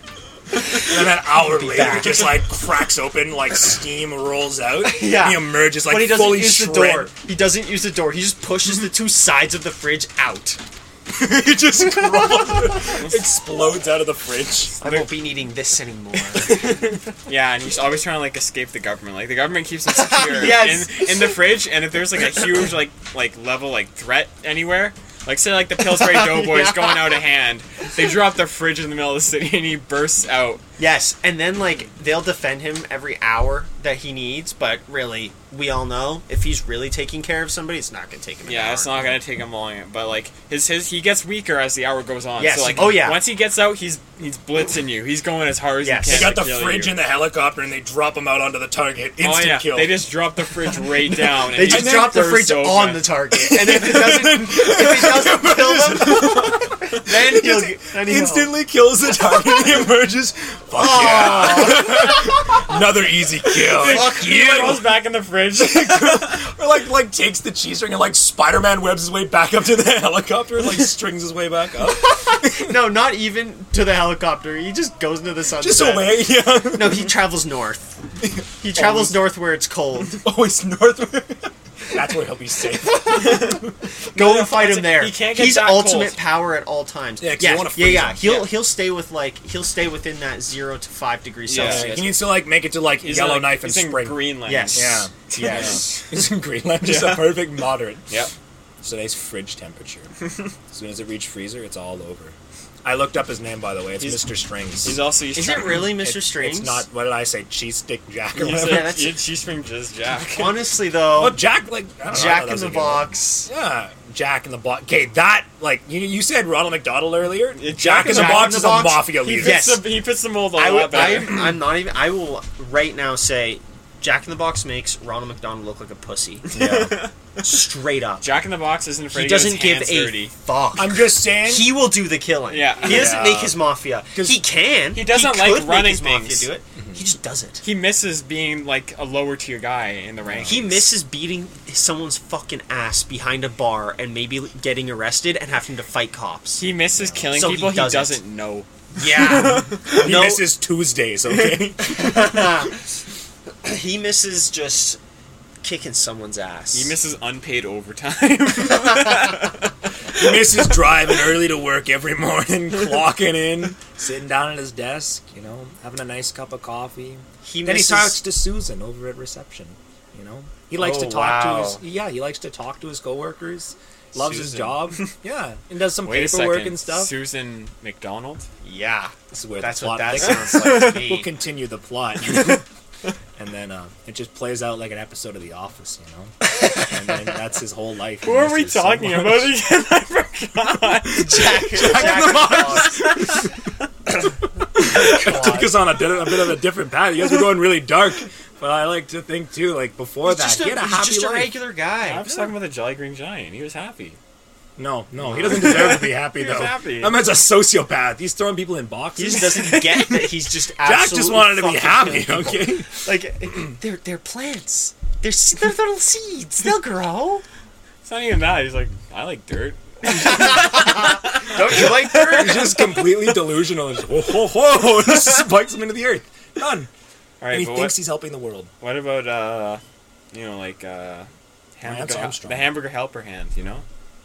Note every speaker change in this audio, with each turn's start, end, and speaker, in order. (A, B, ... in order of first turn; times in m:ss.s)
0:00.7-0:02.4 A
0:00.7-0:07.1 B
0:04.8-0:10.6 A
0:11.1-0:14.8 B
0:13.0-0:13.2 C
0:14.8-0:17.0 A
0:14.8-0:15.1 C
0:17.2-0:30.6 C
0:19.9-0:21.4 A
0:25.8-0:27.2 A
0:30.8-0:39.2 A
0:38.4-0:47.0 C
0:42.4-0:43.2 A
0:45.8-0:46.4 A
0:46.0-0:50.1 B
0:49.2-0:53.2 C
0:51.4-0:52.3 B
0:51.5-0:58.6 A
0:53.3-1:04.9 B
1:00.7-1:02.6 A
1:03.6-1:06.4 C
1:03.8-1:04.8 A
1:05.6-1:12.7 B
1:11.9-1:18.0 A
1:15.6-1:17.2 B
1:18.2-1:19.2 B
1:18.6-1:20.2 A
1:20.1-1:23.7 B
1:22.9-1:23.6 A
1:23.1-1:26.2 C
1:24.1-1:32.2 A
1:27.2-1:28.4 B
1:28.2-1:28.5 C
1:31.5-1:32.0 C
1:31.5-1:38.2 B
1:33.0-1:36.0 C
1:34.5-1:35.9 A
1:36.8-1:37.5 C
1:38.8-1:40.1 B
1:40.2-1:40.5 C
1:40.7-1:45.0 B
1:44.0-1:44.3 C
1:44.8-1:46.0 C
1:45.3-1:46.8 A
1:45.8-1:49.0 B
1:48.3-1:50.7 C
1:48.5-1:49.2 A
1:50.3-1:51.4 A
1:51.1-1:59.6 B
1:52.1-1:53.5 A
1:57.5-2:01.4 C
1:58.0-1:59.8 A
2:00.5-2:06.5 A
2:06.4-2:07.1 C
2:06.5-2:07.0 B
2:07.4-2:08.2 A
2:08.2-2:10.3 C
2:09.1-2:17.6 A
2:10.8-2:11.8 B
2:12.5-2:13.2 C
2:12.8-2:13.6 B
2:14.1-2:14.4 B
2:14.9-2:16.5 C
2:17.6-2:20.9 C
2:20.2-2:20.7 B
2:20.4-2:26.6 A
2:26.6-2:30.1 C
2:27.0-2:27.3 B
2:27.3-2:28.2 A
2:28.9-2:30.4 A
2:29.8-2:32.6 B
2:31.3-2:31.6 C
2:31.8-2:32.8 A
2:33.6-2:35.0 A
2:35.6-2:36.9 A
2:36.7-2:39.7 C
2:40.1-2:57.1 B
2:47.4-2:48.2 A
2:50.8-2:51.8 A
2:54.1-2:55.1 C
2:56.0-2:58.5 C
2:58.6-3:01.3 A
2:59.3-3:02.6 B
3:00.5-3:01.0 C
3:03.4-3:09.5 B
3:08.2-3:13.5 C
3:11.1-3:13.3 A
3:11.7-3:13.5 B
3:14.7-3:21.5 B
3:14.8-3:15.8 A
3:20.2-3:22.4 A
3:22.0-3:24.2 C
3:24.8-3:32.9 B
3:25.2-3:25.9 A
3:25.4-3:27.2 C
3:29.2-3:37.4 A
3:38.0-3:42.8 C
3:40.0-3:43.0 A
3:41.8-3:46.9 B
3:47.4-3:48.0 C
3:47.5-3:48.7 B
3:48.8-3:49.8 C
3:50.3-3:53.8 C
3:51.8-3:52.7 B